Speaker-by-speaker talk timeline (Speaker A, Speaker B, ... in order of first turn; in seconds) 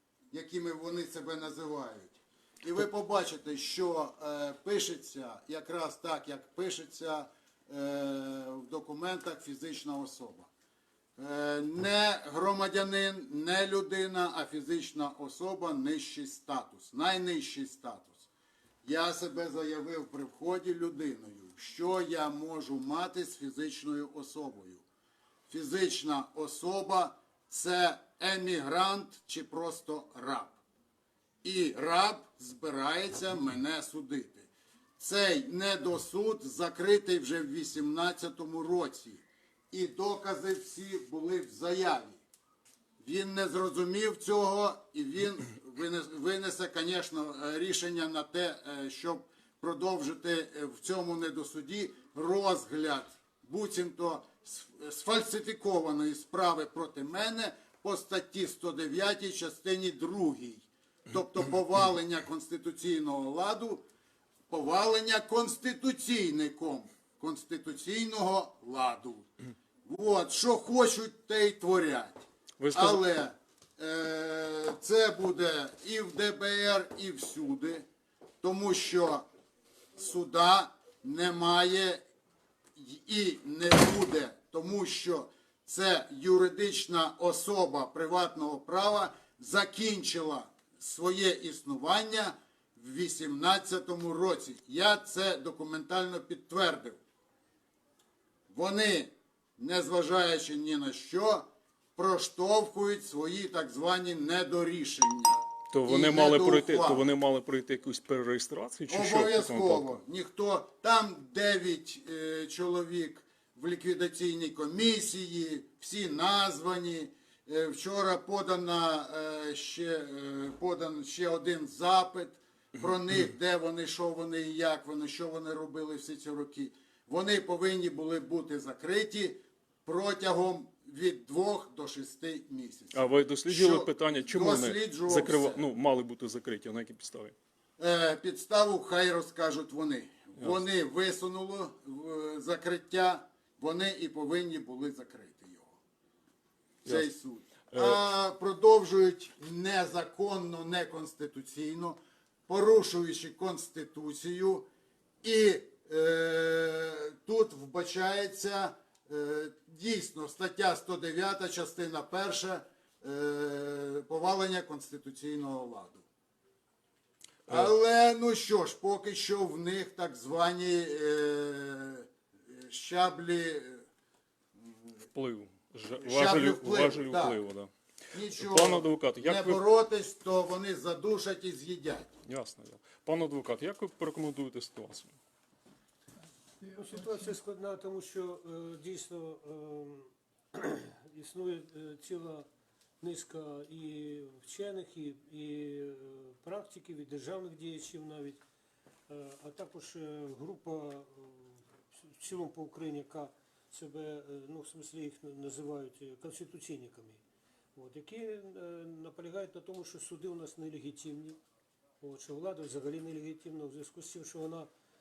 Speaker A: 0.3-10.5, 11.2-18.3, 18.8-24.8, 25.5-30.6, 31.4-42.2, 43.0-63.8, 64.5-69.3, 69.8-77.8, 78.4-79.3, 79.9-82.0, 82.8-97.0, 98.5-107.0, 108.9-135.6, 137.8-145.8, 146.8-154.7, 155.2-166.1, 167.5-173.8, 174.6-175.1, 176.0-177.4, 178.1-182.1
Speaker B: 72.6-73.0, 105.7-110.0, 132.9-137.3, 147.7-148.0, 167.5-167.7, 175.1-179.6, 182.2-185.1
Speaker C: 186.6-192.5, 193.0-198.4, 199.1-207.2, 207.8-211.4, 212.0-214.7